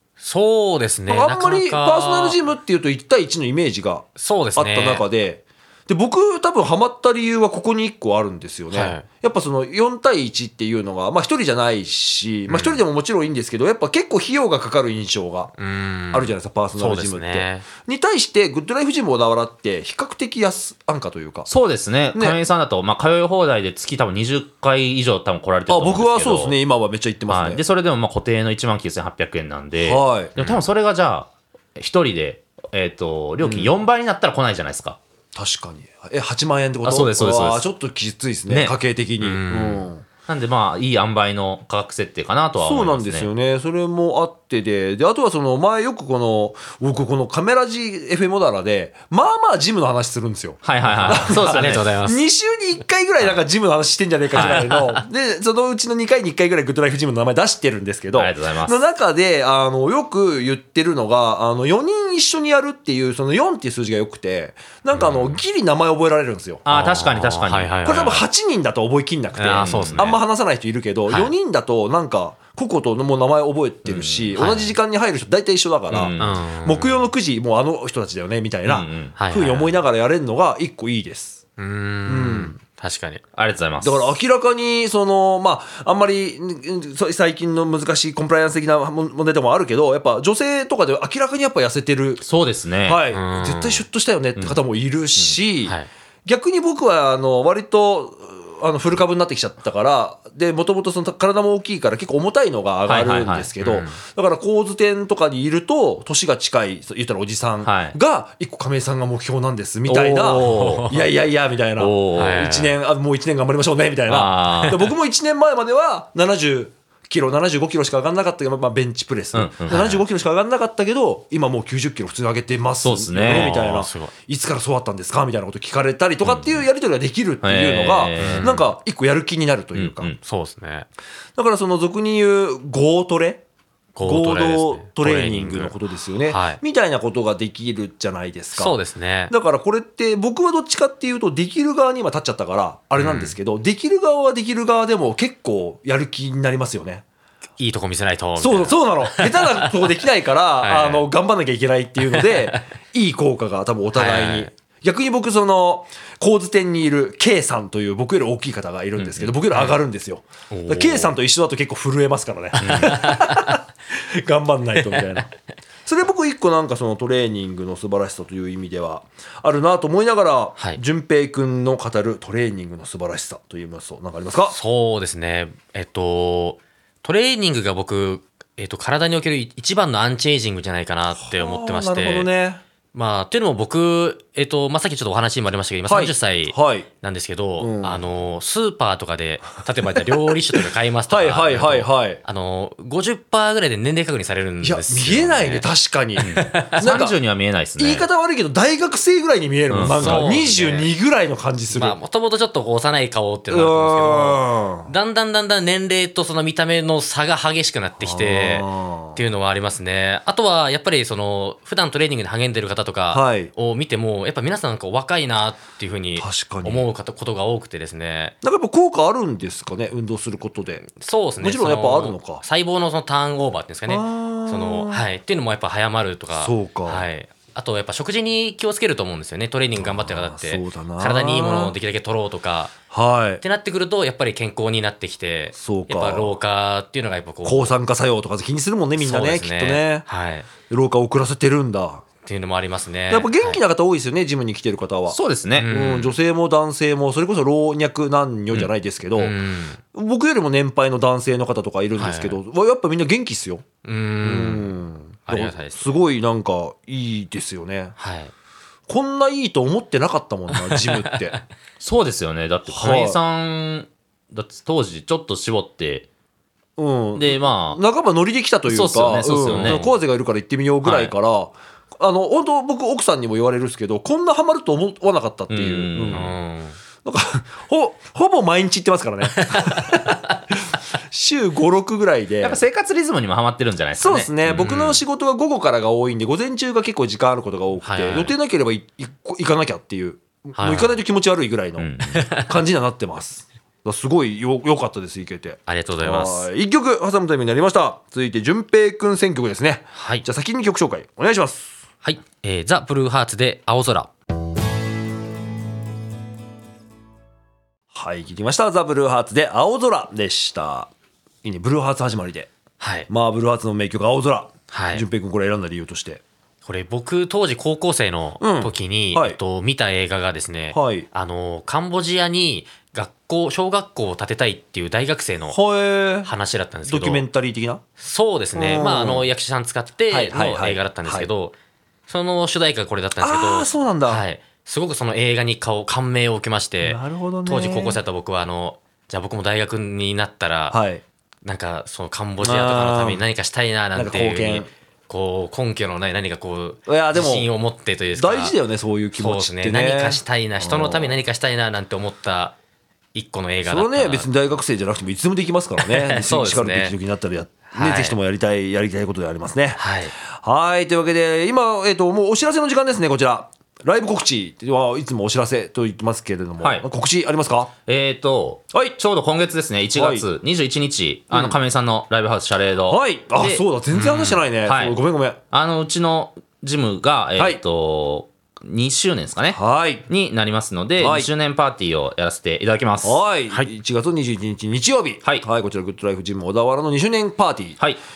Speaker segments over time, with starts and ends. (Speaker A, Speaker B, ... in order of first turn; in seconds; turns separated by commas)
Speaker A: 0.2-2.4, Speaker B: 1.1-15.5, Speaker A: 4.2-5.0, Speaker A: 8.7-9.1, Speaker A: 12.5-12.8, Speaker A: 15.6-17.7, Speaker B: 16.1-21.5, Speaker C: 21.5-26.6, Speaker B: 25.7-27.6, Speaker C: 27.3-35.0, Speaker B: 29.8-30.4, Speaker B: 33.4-33.8, Speaker B: 35.4-40.0, Speaker C: 36.9-37.7, Speaker C: 38.5-38.8, Speaker A: 39.2-39.9, Speaker C: 40.3-43.3, Speaker B: 42.6-66.7, Speaker C: 50.6-51.8, Speaker A: 50.9-52.2, Speaker A: 54.3-55.0, Speaker C: 58.1-58.8, Speaker A: 64.9-65.4, Speaker C: 66.7-67.8, Speaker A: 66.7-68.2, Speaker B: 67.8-81.4, Speaker A: 69.4-70.2, Speaker C: 69.5-70.1, Speaker C: 73.8-74.4, Speaker A: 74.4-74.8, Speaker C: 75.9-76.4, Speaker A: 76.2-77.1, Speaker C: 78.7-79.2, Speaker A: 79.1-79.7, Speaker A: 81.6-83.2, Speaker B: 82.0-82.6, Speaker C: 83.4-84.1, Speaker B: 83.8-92.2, Speaker C: 92.2-93.0, Speaker B: 92.9-130.1, Speaker A: 93.1-93.8, Speaker C: 102.9-103.5, Speaker A: 103.6-104.0, Speaker C: 107.6-108.0, Speaker C: 109.9-110.8, Speaker A: 110.3-111.1, Speaker C: 111.8-112.5, Speaker A: 112.2-112.8, Speaker C: 114.1-114.8, Speaker C: 119.3-119.8, Speaker A: 119.7-120.0, Speaker C: 122.8-123.8, Speaker A: 123.2-124.1, Speaker C: 126.2-126.6, Speaker C: 127.4-128.7, Speaker A: 128.2-128.5, Speaker C: 129.8-130.2, Speaker A: 130.2-130.9, Speaker B: 131.4-133.4, Speaker A: 133.9-135.7, Speaker B: 134.0-138.8, Speaker A: 136.3-136.6, Speaker A: 138.6-139.3, Speaker B: 139.3-147.0, Speaker A: 143.0-143.4, Speaker A: 147.6-150.0, Speaker B: 148.4-165.3, Speaker A: 150.6-151.1, Speaker A: 152.1-152.6, Speaker A: 153.9-154.5, Speaker C: 159.0-159.3, Speaker A: 160.5-161.1, Speaker A: 162.6-163.6, Speaker C: 162.6-163.0, Speaker B: 165.9-174.6, Speaker A: 174.5-182.3, Speaker B: 181.2-182.6, Speaker A: 182.9-195.7, Speaker B: 185.9-186.9, Speaker B: 187.6-188.1, Speaker B: 190.3-192.2, Speaker B: 194.6-197.2, Speaker A: 196.2-196.8, Speaker C: 196.2-198.1, Speaker B: 197.8-202.0, Speaker C: 199.7-200.4, Speaker A: 199.8-200.9, Speaker A: 201.7-218.4, Speaker B: 203.5-204.9, Speaker B: 208.0-209.2, Speaker B: 213.1-213.5, Speaker B: 216.2-216.9, Speaker B: 218.4-220.9, Speaker A: 220.9-232.7, Speaker B: 221.4-222.4, Speaker B: 223.9-225.0, Speaker B: 226.3-227.1, Speaker B: 229.8-231.8, Speaker B: 232.9-233.4, Speaker A: 233.4-237.8, Speaker B: 235.6-236.3, Speaker B: 237.4-240.1, Speaker A: 239.0-240.5, Speaker B: 240.7-242.0, Speaker A: 242.2-243.6, Speaker B: 243.1-245.2, Speaker C: 245.1-245.7, Speaker A: 245.5-246.2, Speaker B: 245.7-249.3, Speaker A: 249.2-249.8, Speaker B: 249.9-253.7, Speaker A: 252.0-252.4, Speaker A: 253.8-254.7, Speaker B: 254.2-258.0, Speaker A: 255.3-255.9, Speaker A: 258.0-258.3, Speaker B: 258.9-261.4, Speaker A: 260.6-261.4, Speaker C: 261.8-266.1, Speaker B: 262.7-263.2, Speaker B: 266.8-276.3, Speaker C: 267.2-267.8, Speaker C: 268.7-269.9, Speaker A: 269.4-269.9, Speaker A: 270.9-271.1, Speaker C: 275.5-276.4, Speaker A: 276.1-276.8, Speaker B: 277.0-282.6, Speaker A: 279.3-280.1, Speaker C: 282.4-284.7, Speaker B: 284.0-301.8, Speaker A: 284.6-285.0, Speaker A: 287.8-288.3, Speaker A: 290.6-291.0, Speaker C: 291.8-292.2, Speaker A: 292.1-292.5, Speaker A: 295.7-296.5, Speaker A: 299.9-300.2, Speaker A: 302.0-304.1, Speaker B: 307.9-310.9, Speaker B: 311.4-312.5, Speaker A: 312.8-313.1, Speaker B: 313.1-316.2, Speaker A: 314.7-315.1, Speaker A: 316.6-325.6, Speaker B: 318.4-319.4, Speaker B: 320.7-321.1, Speaker B: 325.5-326.3, Speaker A: 326.2-327.2, Speaker B: 326.9-327.8, Speaker A: 328.0-331.5, Speaker B: 328.5-329.3, Speaker B: 330.1-331.3, Speaker A: 332.1-340.8, Speaker B: 333.2-334.2, Speaker B: 336.8-338.0, Speaker B: 340.7-341.0, Speaker A: 341.4-348.6, Speaker B: 342.4-343.2, Speaker B: 343.9-344.7, Speaker B: 346.9-347.5, Speaker B: 348.1-351.2, Speaker A: 349.2-352.6, Speaker A: 353.1-354.3, Speaker B: 353.7-367.7, Speaker A: 355.8-357.0, Speaker A: 357.7-358.2, Speaker A: 359.8-360.1, Speaker C: 366.6-366.9, Speaker C: 367.9-373.6, Speaker B: 369.9-370.3, Speaker B: 371.3-371.6, Speaker B: 372.9-375.4, Speaker A: 373.9-374.4, Speaker C: 374.7-375.0, Speaker C: 375.5-383.2, Speaker B: 377.4-377.6, Speaker B: 379.5-380.1, Speaker B: 381.0-381.3, Speaker B: 383.0-387.8